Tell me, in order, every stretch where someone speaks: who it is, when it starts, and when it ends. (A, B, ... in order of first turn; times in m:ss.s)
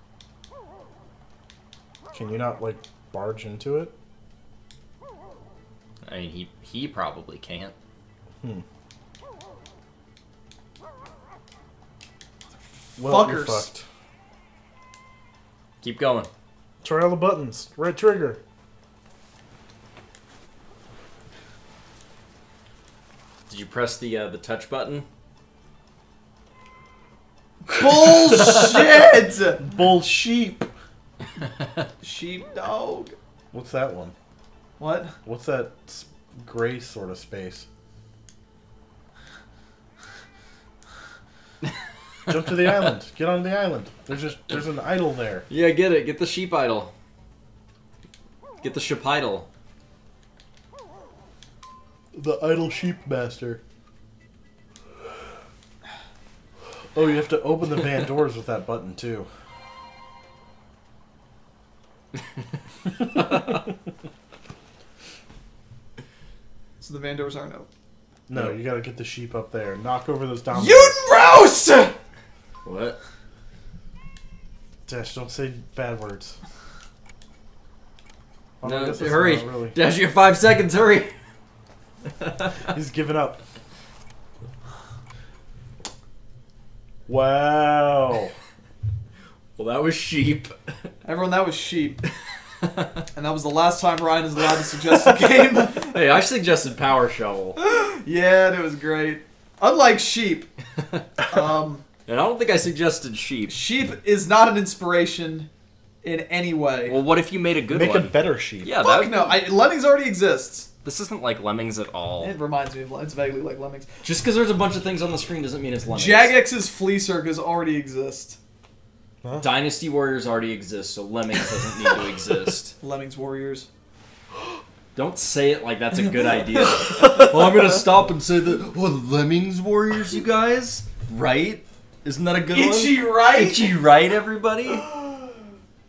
0:02.1-0:03.9 A
0:06.0-0:07.7 B
0:13.0-0:13.9 A
0:13.0-0:13.7 C
0:15.8-0:16.3 B
0:16.8-0:18.4 A
0:23.5-0:25.1 B
0:27.7-0:29.6 C
0:28.3-0:28.7 A
0:29.6-0:30.7 A
0:32.0-0:33.2 C
0:33.5-0:34.2 A
0:34.8-0:35.2 C
0:35.2-0:37.7 A
0:42.3-0:45.5 A
0:45.5-0:46.9 B
0:48.6-0:49.5 B
0:52.1-0:53.6 A
0:56.9-0:59.3 A
1:03.2-1:03.5 B
1:06.8-1:07.7 C
1:08.3-1:11.0 A
1:10.5-1:12.0 C
1:12.6-1:13.0 B
1:14.9-1:16.4 A
1:18.6-1:19.8 A
1:18.6-1:21.1 B
1:22.2-1:22.6 B
1:22.7-1:23.4 A
1:27.1-1:28.3 A
1:29.6-1:30.6 B
1:31.0-1:32.0 C
1:32.6-1:32.9 B
1:33.1-1:36.0 C
1:35.7-1:37.6 B
1:37.6-1:40.5 C
1:40.8-1:41.1 B
1:41.3-1:41.8 C
1:42.1-1:43.6 B
1:43.5-1:45.5 C
1:46.0-1:47.0 C
1:46.9-1:49.4 B
1:47.7-1:48.8 A
1:48.8-1:50.7 C
1:50.8-1:52.3 B
1:52.2-1:54.0 C
1:54.0-1:56.4 B
1:55.9-1:58.4 C
1:59.4-2:02.7 B
2:02.8-2:03.7 C
2:05.0-2:14.9 B
2:12.5-2:13.8 C
2:14.7-2:15.3 C